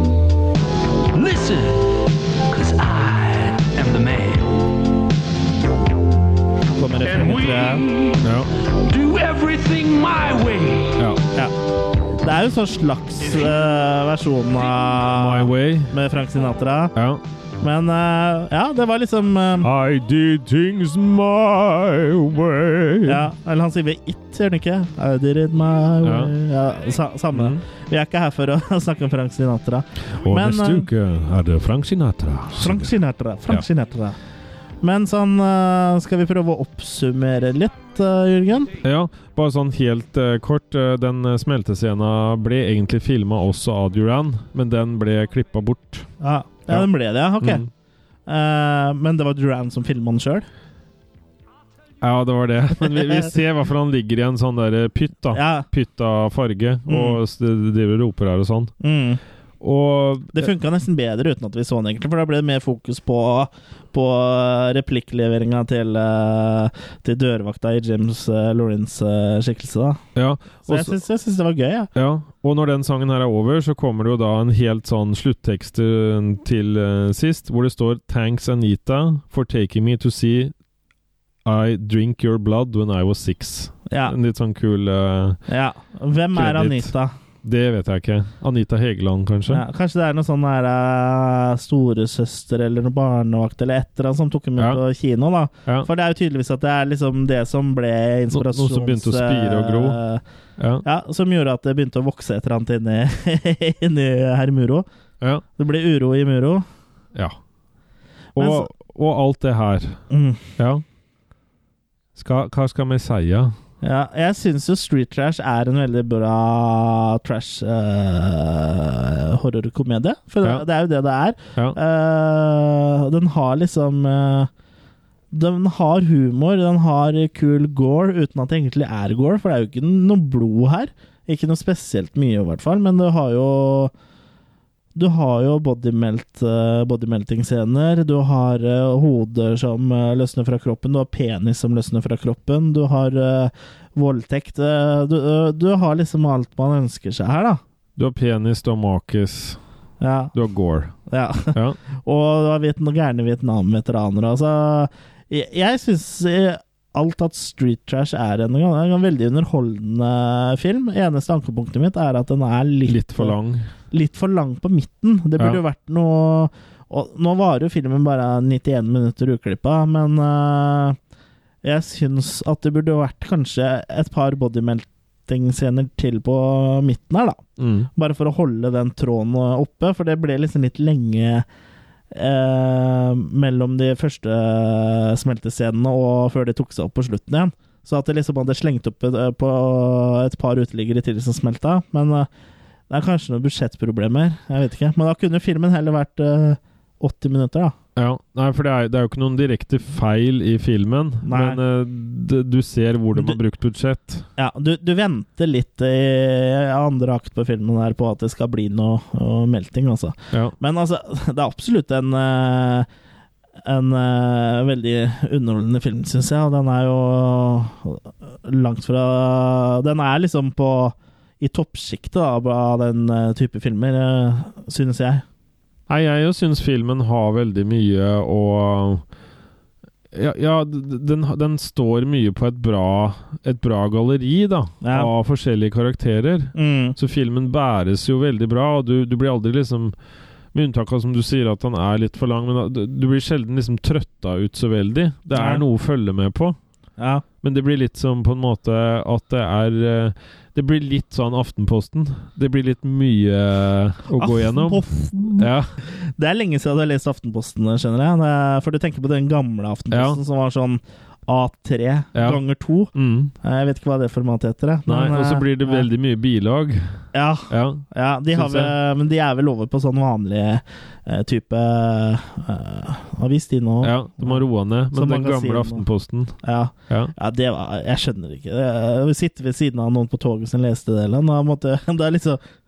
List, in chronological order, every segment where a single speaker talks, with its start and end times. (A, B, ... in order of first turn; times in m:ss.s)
0:01.1-0:04.7 A
0:06.7-0:07.8 B
0:07.0-0:11.1 A
0:08.2-0:08.5 C
0:11.0-0:11.2 C
0:12.2-0:16.9 B
0:14.9-0:15.9 C
0:16.9-0:17.2 C
0:17.6-0:19.7 B
0:19.6-0:23.2 C
0:23.0-0:30.9 B
0:26.0-0:26.3 C
0:27.3-0:27.6 C
0:30.2-0:33.6 C
0:32.6-0:34.2 B
0:34.8-0:38.7 B
0:38.8-0:46.1 C
0:46.2-0:47.6 B
0:47.4-0:47.7 C
0:48.3-0:50.4 B
0:52.0-0:58.7 C
0:55.3-0:55.6 B
0:56.9-0:57.2 B
0:58.8-0:59.2 B
0:59.6-1:00.5 C
1:00.3-1:10.0 B
1:10.1-1:11.0 C
1:10.6-1:11.9 B
1:11.9-1:20.5 C
1:21.4-1:25.4 C
1:23.9-1:24.1 B
1:25.5-1:27.1 B
1:26.3-1:26.9 C
1:27.4-1:29.6 C
1:29.5-1:40.2 B
1:34.6-1:34.8 C
1:38.3-1:40.0 C
1:40.6-1:40.8 C
1:40.8-1:44.8 B
1:45.6-1:46.6 B
1:48.3-1:50.0 C
1:48.4-1:48.7 B
1:50.1-1:50.4 B
1:50.6-1:50.8 C
1:52.2-1:53.5 C
1:53.8-2:04.5 B
2:05.3-2:13.9 B
2:14.9-2:27.6 B
2:28.0-2:29.6 C
2:30.0-2:30.3 B
2:30.3-2:30.9 C
2:31.1-2:43.4 B
2:31.5-2:31.8 C
2:42.9-2:43.7 C
2:43.9-2:51.0 B
2:51.6-2:57.4 B
2:57.6-2:57.9 C
2:57.9-3:01.4 B
3:02.1-3:12.3 B
3:12.9-3:17.7 B
3:18.0-3:24.2 C
3:21.2-3:21.6 B
3:24.4-3:32.9 B
3:33.6-3:45.2 B
3:45.9-3:49.0 C
3:50.1-3:59.9 C
3:54.8-3:55.1 B
3:56.5-3:57.0 B
4:00.5-4:06.6 C
4:05.3-4:05.6 B
4:07.0-4:07.2 B
4:07.4-4:14.8 C
4:14.2-4:25.9 B
4:15.4-4:15.8 C
4:19.9-4:20.2 C
4:22.1-4:22.4 C
4:22.9-4:23.3 C
4:24.9-4:28.7 C
4:27.1-4:35.9 B
4:33.8-4:36.4 C
4:36.4-4:42.4 B